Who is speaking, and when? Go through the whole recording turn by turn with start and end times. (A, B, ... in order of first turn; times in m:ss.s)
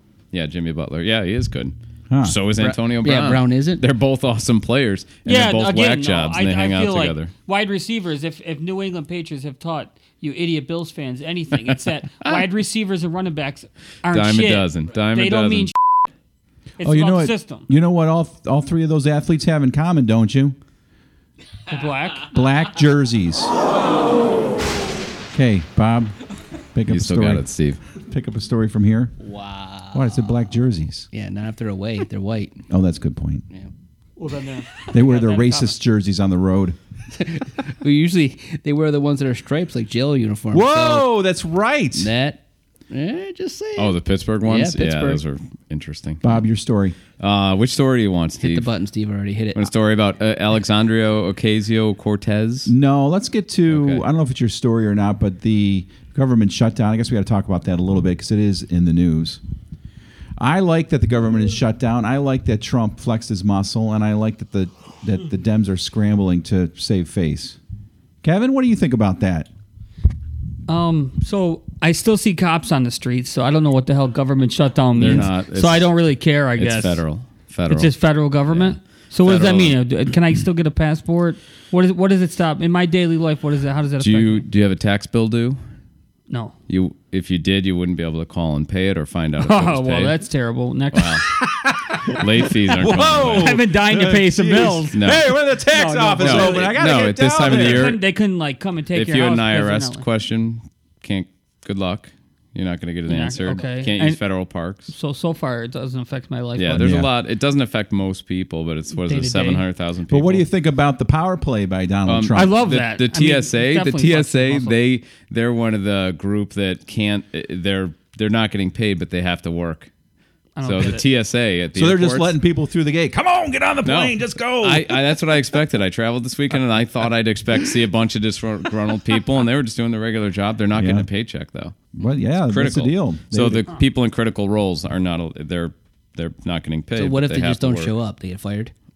0:00.3-0:07.3 A
0:02.1-0:02.4 B
0:02.6-0:03.8 C
0:05.2-0:15.7 D
0:14.1-0:15.7 A
0:16.8-0:17.7 D
0:16.8-0:20.6 B
0:21.7-0:22.4 D
0:22.3-0:23.6 B
0:25.3-0:26.2 B
0:26.7-0:29.1 B
0:26.9-0:27.8 A
0:29.2-0:30.2 C
0:29.9-0:31.1 B
0:31.1-0:32.6 C
0:32.7-0:33.4 B
0:34.2-0:35.8 D
0:34.9-0:36.8 B
0:37.1-0:41.1 C
0:40.5-0:42.1 B
0:42.0-0:45.2 C
0:43.8-0:46.4 A
0:46.2-0:47.0 B
0:47.2-0:48.7 A
0:48.4-0:49.7 C
0:49.6-0:52.7 A
0:52.7-0:59.4 B
0:53.7-0:54.0 A
1:00.4-1:07.6 B
1:08.2-1:09.5 B
1:10.7-1:17.0 D
1:15.0-1:15.9 A
1:16.6-1:17.9 A
1:17.7-1:24.4 D
1:18.4-1:19.8 A
1:24.0-1:25.6 A
1:26.3-1:26.6 D
1:26.7-1:30.2 A
1:29.4-1:31.3 D
1:30.9-1:31.3 A
1:31.4-1:32.3 B
1:32.1-1:33.6 A
1:32.7-1:36.8 D
1:32.8-1:37.9 B
1:34.9-1:35.3 A
1:36.2-1:38.0 A
1:37.4-1:40.0 D
1:38.9-1:44.9 A
1:43.1-1:44.2 D
1:44.9-1:46.8 D
1:46.6-1:50.5 A
1:46.8-1:47.1 B
1:49.0-1:49.6 D
1:50.1-1:52.6 B
1:52.1-1:59.9 A
1:52.3-1:54.8 D
2:00.6-2:01.0 D
2:00.6-2:02.4 A
2:01.8-2:05.2 B
2:03.8-2:17.9 A
2:10.7-2:11.1 B
2:11.9-2:13.6 B
2:17.0-2:18.7 C